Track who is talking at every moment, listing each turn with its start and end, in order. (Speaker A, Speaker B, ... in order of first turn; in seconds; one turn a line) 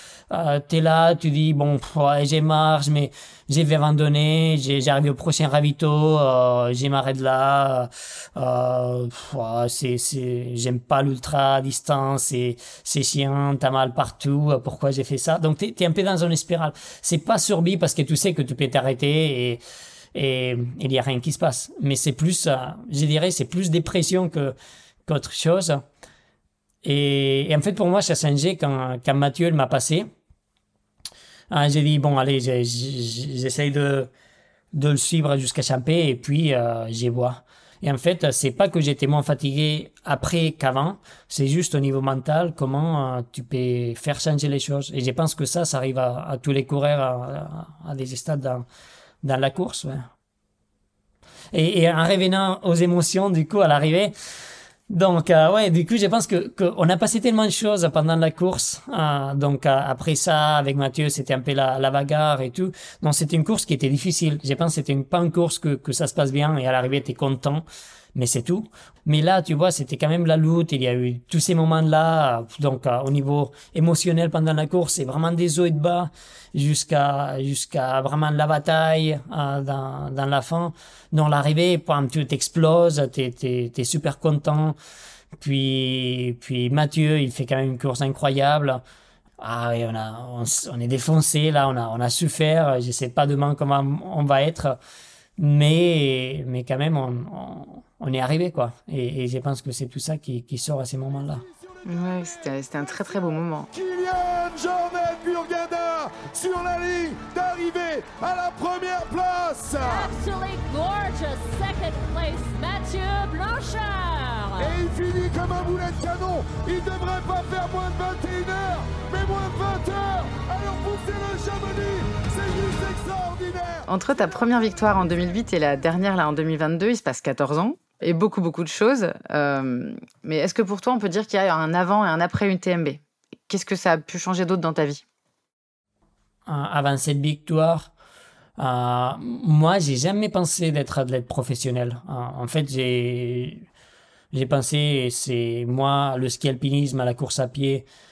Speaker A: 0.3-19.6
Speaker A: 20.1-24.5
Speaker A: 25.1-25.8
Speaker A: 26.8-30.1
Speaker A: 31.5-34.1
Speaker A: 34.7-48.6
Speaker A: 49.2-50.1
Speaker A: 51.5-54.1
Speaker A: 54.9-84.8
Speaker A: 85.4-88.8
Speaker A: 89.4-94.8
Speaker A: 95.4-101.4
Speaker B: 101.8-103.7
Speaker C: 103.7-110.1
Speaker D: 109.8-114.8
Speaker C: 114.6-123.9
Speaker B: 123.9-135.0
Speaker A: 136.5-137.9
Speaker A: 138.6-143.6
Speaker A: 144.3-147.8